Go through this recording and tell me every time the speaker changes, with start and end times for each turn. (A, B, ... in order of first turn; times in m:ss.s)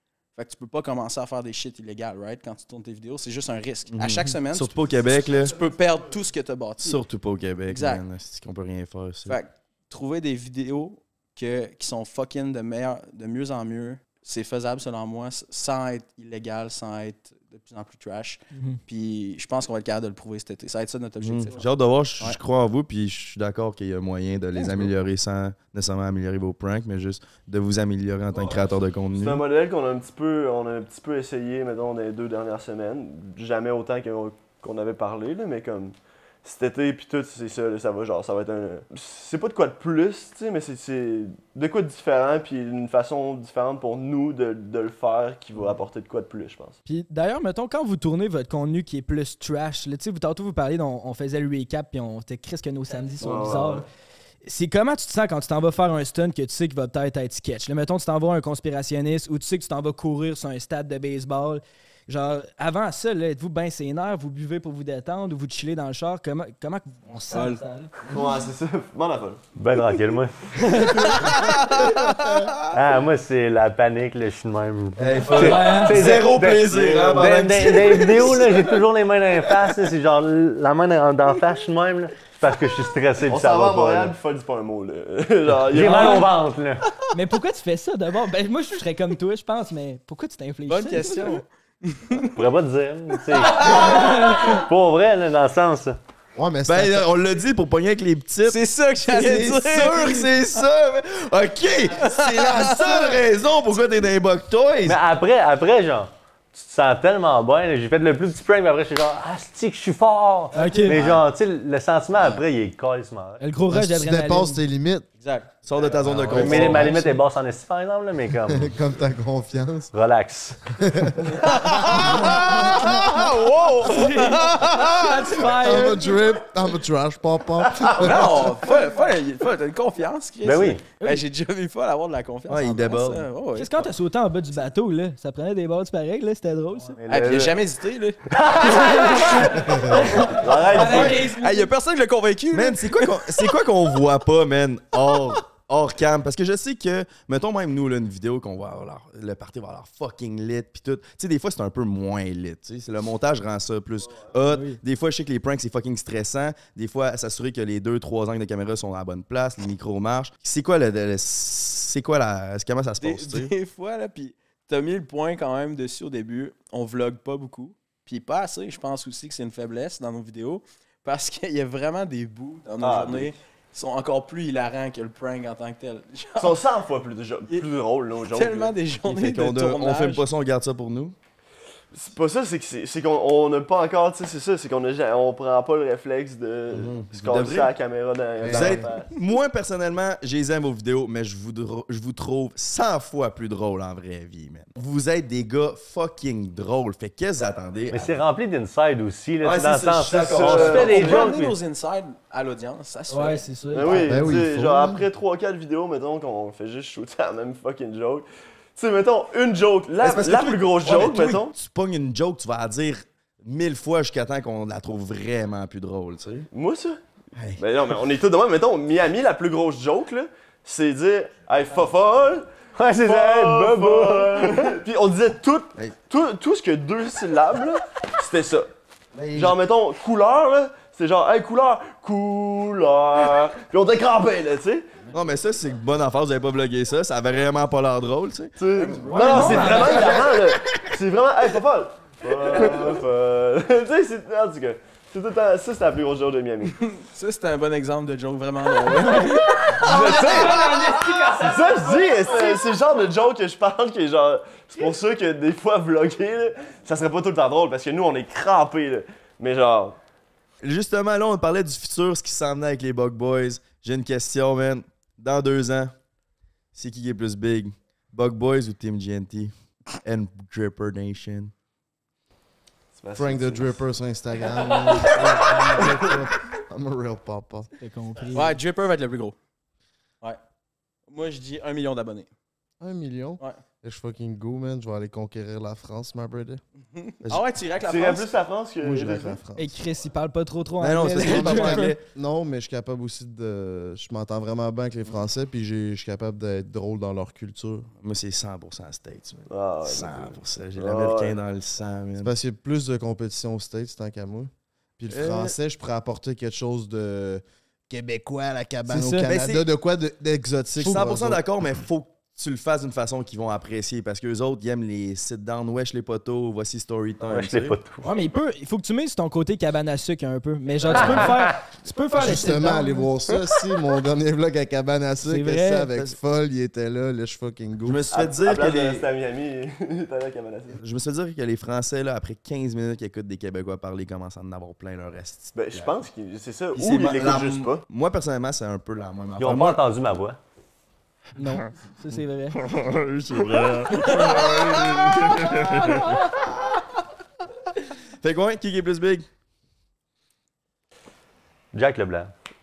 0:00.4-0:07.0 A
0:03.9-0:05.5 B
0:06.8-0:09.4 B
0:07.7-0:08.0 A
0:09.3-0:21.6 A
0:18.5-0:18.8 C
0:21.2-0:29.4 B
0:29.1-0:46.8 D
0:46.8-0:53.8 C
0:53.2-0:53.8 D
0:54.4-1:07.9 C
1:07.3-1:07.6 A
1:08.0-1:09.4 D
1:09.6-1:11.0 E
1:12.7-1:24.1 E
1:15.0-1:18.8 B
1:15.3-1:15.9 C
1:19.5-1:19.8 B
1:23.2-1:26.3 D
1:25.7-1:26.8 E
1:27.1-1:31.4 C
1:30.7-1:31.4 A
1:32.4-1:36.0 E
1:33.5-1:34.6 C
1:36.4-1:37.0 F
1:36.7-1:45.0 B
1:38.4-1:40.3 A
1:42.1-1:42.8 A
1:44.8-1:53.4 E
1:50.5-1:51.2 C
1:50.6-1:51.2 A
1:53.4-1:54.6 C
1:53.7-1:55.1 F
1:55.2-1:55.5 A
1:55.6-1:57.0 B
1:56.1-1:56.9 F
1:56.3-1:58.7 E
1:56.5-1:57.1 C
1:58.5-1:59.9 F
1:59.9-2:00.6 E
2:00.8-2:01.3 F
2:01.9-2:04.4 B
2:03.9-2:05.5 A
2:03.9-2:06.1 C
2:05.5-2:08.4 F
2:08.0-2:13.9 A
2:10.4-2:10.9 E
2:10.9-2:11.2 C
2:12.5-2:13.3 B
2:13.5-2:17.0 C
2:17.0-2:17.6 E
2:17.1-2:23.5 A
2:18.8-2:21.7 C
2:20.3-2:21.2 D
2:22.5-2:43.5 B
2:34.4-2:34.8 C
2:43.0-2:56.6 A
2:52.8-2:53.3 D
2:56.4-2:58.7 D
2:58.3-3:00.2 A
2:59.0-3:01.1 B
3:01.9-3:09.1 D
3:06.7-3:07.7 B
3:08.4-3:08.8 F
3:08.5-3:18.2 B
3:17.9-3:21.5 E
3:19.4-3:21.3 B
3:20.1-3:21.3 D
3:20.4-3:23.9 A
3:23.1-3:24.2 C
3:23.7-3:31.5 D
3:24.0-3:25.0 F
3:30.0-3:36.5 B
3:36.5-3:37.0 D
3:37.3-3:37.6 B
3:37.6-3:42.5 D
3:42.8-3:44.7 E
3:43.0-3:48.7 D
3:49.1-3:49.6 B
3:49.3-3:54.9 D
3:55.1-3:58.5 B
3:58.6-4:06.8 D
3:58.8-4:00.2 A
3:59.0-4:00.2 C
3:59.3-4:00.0 B
4:07.0-4:11.9 A
4:09.7-4:11.4 C
4:09.8-4:10.7 D
4:11.4-4:20.0 D
4:20.6-4:25.9 B
4:26.7-4:31.5 B
4:32.9-4:33.8 D
4:33.2-4:37.7 F
4:37.8-4:38.6 C
4:38.3-4:39.4 A
4:41.1-4:42.3 A
4:42.8-4:46.6 F
4:47.0-4:48.3 A
4:47.8-4:49.4 D
4:48.8-4:49.7 F
4:49.6-4:51.9 C
4:50.8-4:52.0 B
4:51.2-4:57.9 F
4:58.0-5:02.3 B
4:59.5-5:01.3 D
5:02.2-5:11.4 F
5:05.1-5:05.6 B
5:08.9-5:09.3 C
5:09.3-5:09.7 B
5:10.8-5:17.8 B
5:17.3-5:18.1 E
5:18.0-5:23.2 C
5:21.0-5:21.2 B
5:22.2-5:28.0 F
5:25.2-5:25.9 C
5:27.8-5:29.1 B
5:28.1-5:30.8 D
5:30.7-5:36.0 B
5:35.5-5:37.8 D
5:36.7-5:39.9 B
5:39.4-5:40.4 E
5:41.4-5:42.6 C
5:42.5-5:46.5 B
5:44.0-5:45.1 C
5:48.2-5:49.3 B
5:51.7-5:52.3 E